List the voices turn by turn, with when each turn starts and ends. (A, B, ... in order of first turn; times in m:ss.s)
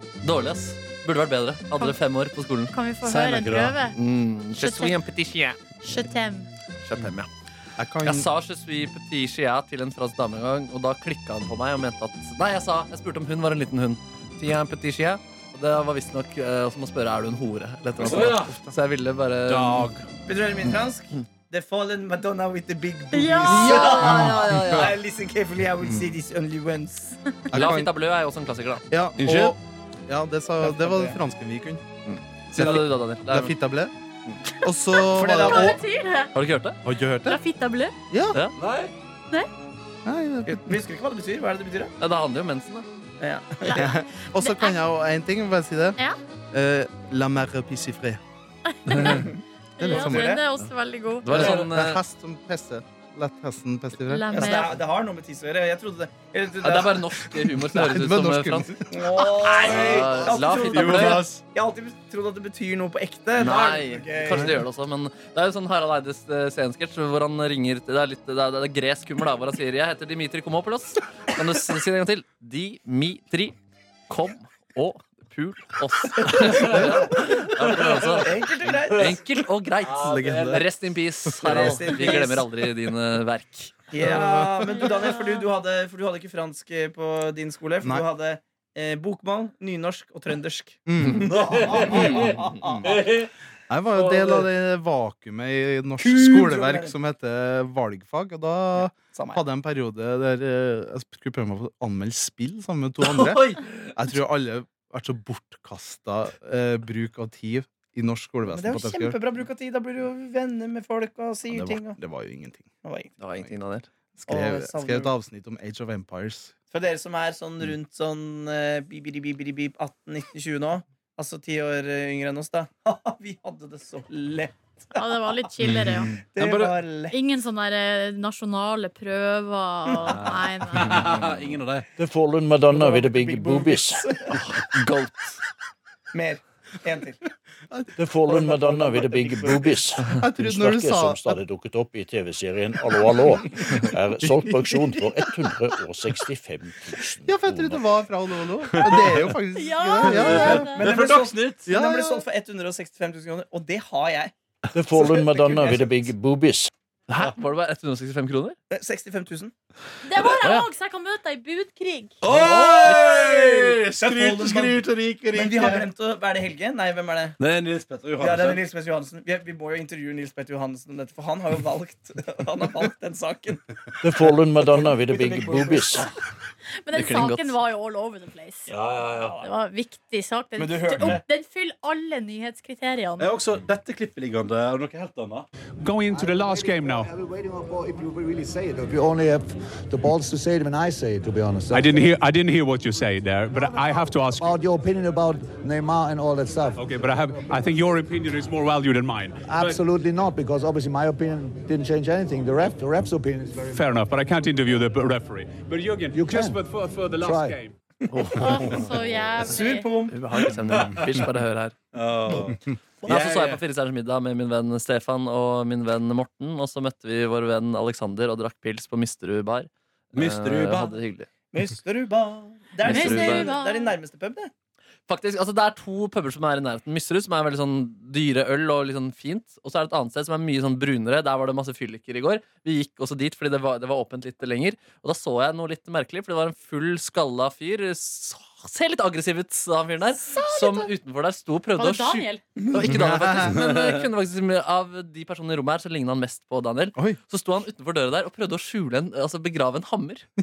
0:00.2-0:02.7 A
0:02.7-0:04.0 B
0:03.0-0:03.8 C
0:04.0-0:05.6 A
0:04.6-0:05.0 B
0:05.8-0:06.5 B
0:06.8-0:07.3 A
0:07.8-0:08.3 D
0:08.0-0:19.9 A
0:18.0-0:18.6 C
0:19.5-0:20.0 C
0:20.3-0:27.2 E
0:23.1-0:24.3 B
0:23.5-0:24.9 A
0:24.2-0:24.8 D
0:27.5-0:27.9 D
0:27.5-0:28.8 A
0:28.9-0:29.6 D
0:29.2-0:29.5 C
0:30.1-0:31.8 D
0:30.6-0:31.2 E
0:32.0-0:33.5 A
0:32.5-0:33.9 D
0:34.6-0:35.8 D
0:35.2-0:35.8 E
0:35.3-0:36.3 B
0:36.3-0:36.8 A
0:36.8-0:37.4 D
0:37.2-0:37.9 B
0:38.1-0:38.4 D
0:38.6-0:38.9 C
0:40.0-0:40.8 D
0:40.4-0:41.9 E
0:42.0-0:42.8 A
0:43.2-0:43.9 E
0:43.6-0:44.8 B
0:43.7-0:46.0 D
0:46.5-0:48.2 D
0:48.8-0:51.5 B
0:49.0-0:50.4 E
0:49.8-0:50.4 D
0:51.2-0:52.0 A
0:51.3-0:54.6 D
0:54.0-0:54.8 B
0:54.3-0:57.1 E
0:56.6-0:58.8 A
0:57.4-1:01.4 D
0:58.9-1:04.6 E
0:59.6-1:00.1 C
0:59.6-1:01.3 A
1:03.4-1:13.6 A
1:04.3-1:04.6 D
1:14.1-1:18.3 A
1:16.3-1:16.6 E
1:16.7-1:17.1 D
1:17.7-1:18.3 C
1:18.2-1:19.2 E
1:18.9-1:23.7 A
1:19.9-1:20.6 D
1:19.9-1:20.6 C
1:21.2-1:22.0 D
1:21.4-1:22.5 E
1:23.9-1:32.9 E
1:24.0-1:24.9 D
1:30.8-1:33.0 D
1:31.3-1:33.3 C
1:33.7-1:49.2 D
1:34.0-1:34.4 C
1:36.0-1:36.9 E
1:39.1-1:39.4 E
1:43.1-1:43.8 A
1:48.5-1:52.0 E
1:51.5-1:52.7 D
1:52.8-1:53.1 E
1:53.2-1:53.9 A
1:54.1-1:56.5 D
1:54.3-1:55.1 E
1:56.7-2:05.4 E
2:04.9-2:06.2 B
2:05.6-2:06.8 C
2:06.3-2:07.2 E
2:07.1-2:11.1 B
2:10.0-2:11.8 C
2:12.0-2:14.0 F
2:12.7-2:14.4 E
2:16.1-2:17.2 E
2:17.7-2:18.3 D
2:18.0-2:27.8 F
2:18.3-2:19.8 E
2:20.0-2:21.4 D
2:23.6-2:25.3 D
2:27.2-2:30.8 D
2:28.7-2:29.3 C
2:29.6-2:30.9 B
2:30.1-2:31.6 C
2:30.4-2:34.3 E
2:31.6-2:32.2 D
2:34.7-2:36.7 F
2:34.9-2:36.1 E
2:37.1-2:38.6 A
2:38.7-2:39.5 E
2:40.0-2:42.2 B
2:42.2-2:45.8 C
2:42.3-2:47.4 E
2:47.4-2:48.6 C
2:48.2-2:56.1 E
2:54.0-2:56.1 F
2:56.8-2:58.7 B
2:56.9-2:57.6 A
2:58.7-2:59.4 C
2:59.4-3:03.3 B
3:00.6-3:01.2 E
3:03.2-3:05.5 C
3:05.8-3:07.1 G
3:06.1-3:12.0 H
3:11.7-3:14.5 G
3:13.6-3:16.9 H
3:16.8-3:19.8 G
3:19.4-3:23.8 H
3:23.7-3:27.7 G
3:26.1-3:26.6 H
3:27.2-3:27.6 H
3:28.3-3:29.9 B
3:29.4-3:30.1 E
3:30.1-3:31.7 A
3:30.6-3:31.2 C
3:31.9-3:33.6 C
3:33.1-3:41.3 A
3:40.1-3:41.0 C
3:41.5-3:44.5 E
3:42.8-3:43.5 A
3:42.8-3:44.0 B
3:45.1-4:10.2 A
4:00.1-4:00.9 B
4:01.8-4:02.4 B
4:02.8-4:03.6 D
4:03.4-4:03.9 C